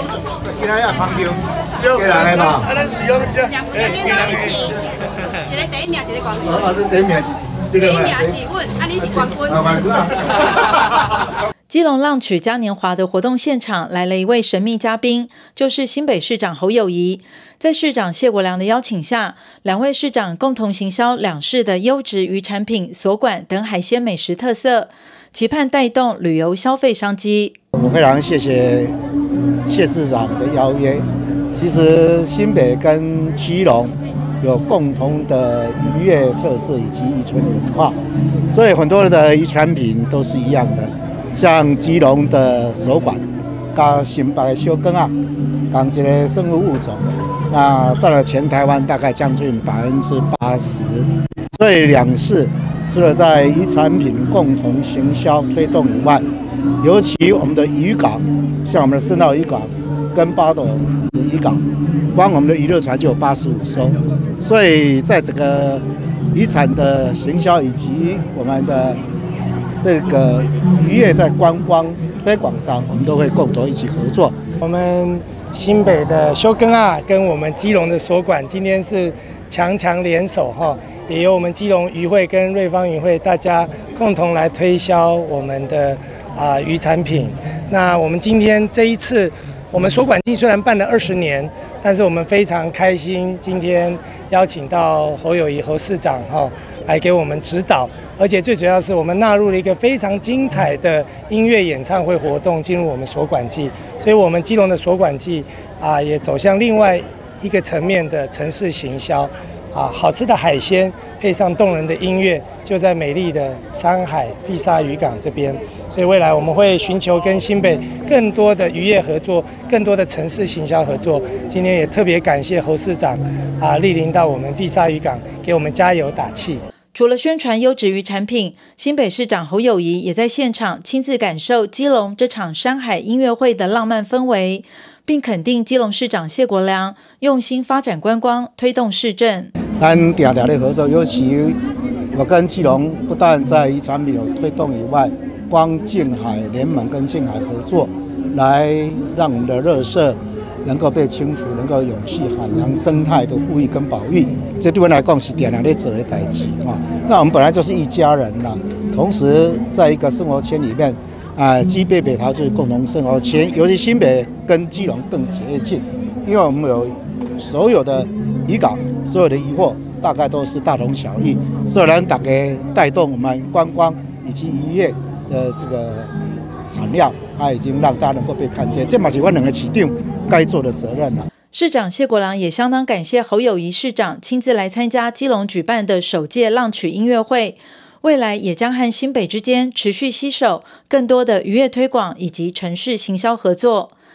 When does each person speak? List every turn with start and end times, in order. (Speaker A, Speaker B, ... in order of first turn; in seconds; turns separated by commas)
Speaker A: 0.4-2.8, Speaker B: 3.3-4.7, Speaker B: 5.4-6.4, Speaker A: 6.4-8.4, Speaker B: 8.3-9.4, Speaker A: 9.0-10.6, Speaker C: 11.7-27.5, Speaker A: 27.7-28.9, Speaker A: 29.6-38.0, Speaker A: 38.5-43.2, Speaker A: 43.7-45.1, Speaker A: 45.7-56.2, Speaker A: 56.8-61.6, Speaker A: 62.1-69.0, Speaker A: 69.8-74.3, Speaker D: 74.6-126.6, Speaker C: 126.9-139.5, Speaker A: 139.8-141.6, Speaker A: 142.1-176.1, Speaker A: 176.7-181.3, Speaker C: 181.5-193.9